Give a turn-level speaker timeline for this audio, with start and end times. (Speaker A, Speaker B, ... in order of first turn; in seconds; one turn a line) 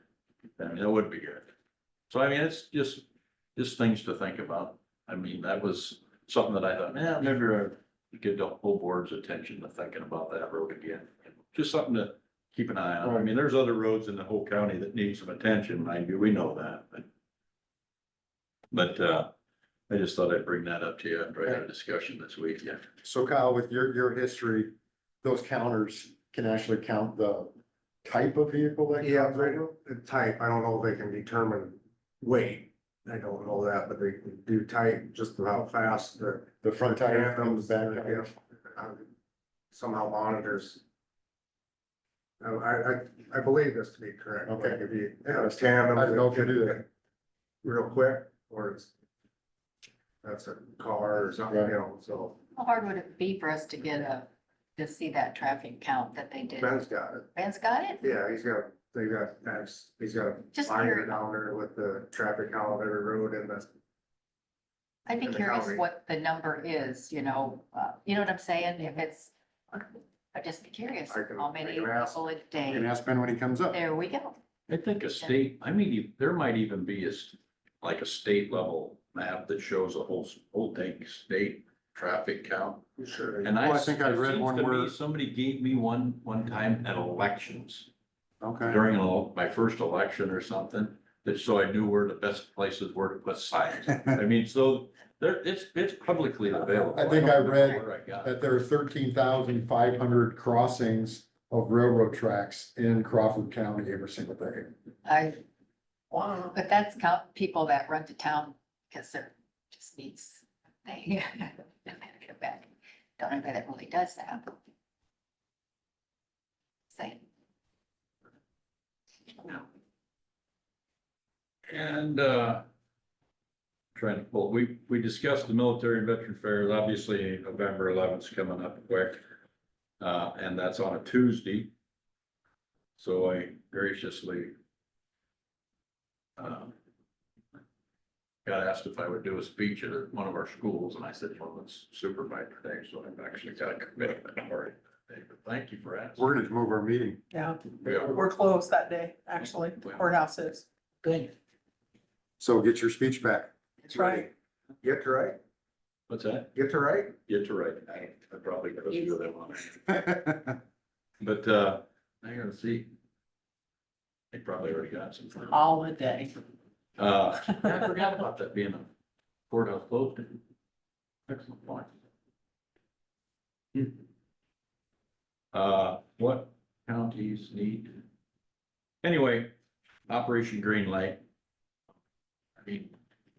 Speaker A: 0.6-1.5
Speaker A: 2.1-3.0
Speaker A: 3.6-17.1
Speaker A: 18.7-19.3
Speaker A: 19.9-22.9
Speaker B: 23.0-29.7
Speaker C: 29.0-39.1
Speaker B: 36.6-38.3
Speaker C: 39.7-40.8
Speaker C: 42.4-46.8
Speaker B: 44.5-46.8
Speaker C: 47.6-48.9
Speaker C: 50.2-52.4
Speaker D: 52.5-54.3
Speaker D: 54.8-58.0
Speaker C: 56.6-57.3
Speaker C: 58.0-63.7
Speaker D: 60.5-61.2
Speaker D: 65.1-72.9
Speaker C: 65.2-65.8
Speaker C: 71.1-72.2
Speaker B: 72.7-73.8
Speaker D: 73.7-74.4
Speaker A: 74.7-82.8
Speaker C: 83.0-83.4
Speaker B: 83.4-84.9
Speaker A: 83.4-87.9
Speaker B: 88.4-88.8
Speaker A: 88.7-98.3
Speaker B: 96.9-104.7
Speaker D: 105.0-105.4
Speaker E: 106.1-106.5
Speaker D: 106.5-114.6
Speaker D: 116.9-117.2
Speaker A: 121.7-122.6
Speaker A: 124.0-129.2
Speaker A: 130.0-131.7
Speaker A: 133.0-134.5
Speaker A: 136.4-136.7
Speaker A: 138.4-146.2
Speaker B: 146.2-147.2
Speaker E: 147.3-150.7
Speaker A: 147.8-148.2
Speaker A: 149.8-150.1
Speaker A: 151.0-151.3
Speaker B: 152.4-153.5
Speaker E: 153.9-154.2
Speaker C: 154.8-155.4
Speaker A: 156.1-156.5
Speaker C: 156.5-157.1
Speaker A: 157.1-160.1
Speaker B: 159.9-160.5
Speaker A: 161.2-162.9
Speaker A: 164.3-165.6
Speaker E: 165.5-166.4
Speaker A: 167.0-168.9
Speaker A: 169.5-170.4
Speaker A: 171.3-171.9
Speaker A: 175.5-178.0
Speaker A: 179.0-179.5
Speaker A: 180.1-181.2
Speaker A: 182.6-182.9